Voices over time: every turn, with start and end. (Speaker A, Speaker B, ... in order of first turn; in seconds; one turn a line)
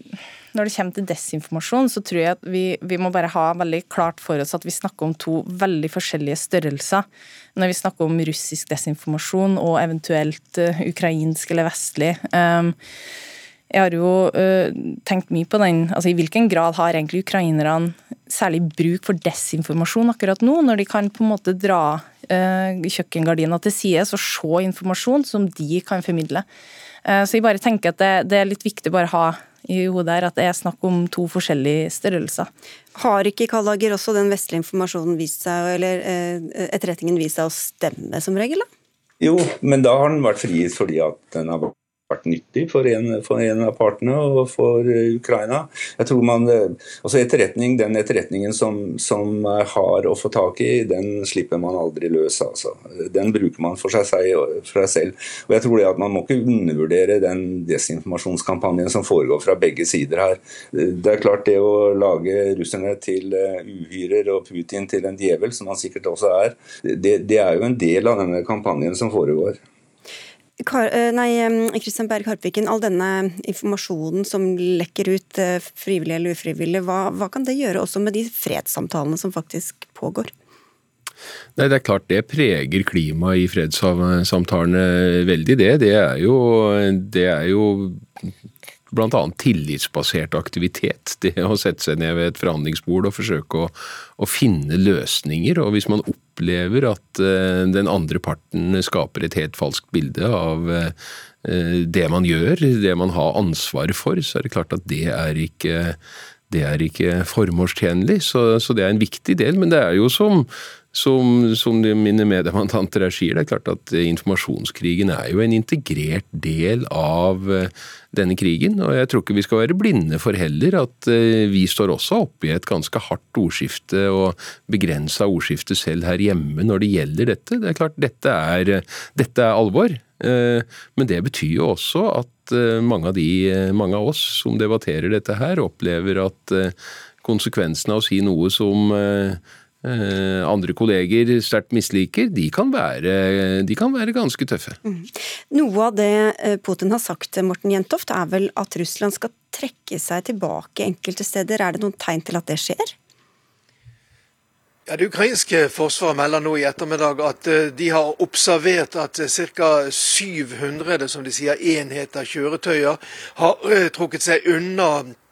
Speaker A: 0.5-7.0
Speaker A: 7.6-12.8
Speaker A: 13.7-26.5
Speaker A: 27.1-32.5
Speaker B: 33.0-38.7
Speaker C: 39.2-69.6
Speaker B: 70.6-80.3
Speaker D: 81.6-88.3
Speaker D: 88.9-106.0
Speaker D: 106.5-144.8
Speaker B: 144.8-152.9
Speaker E: 154.9-165.2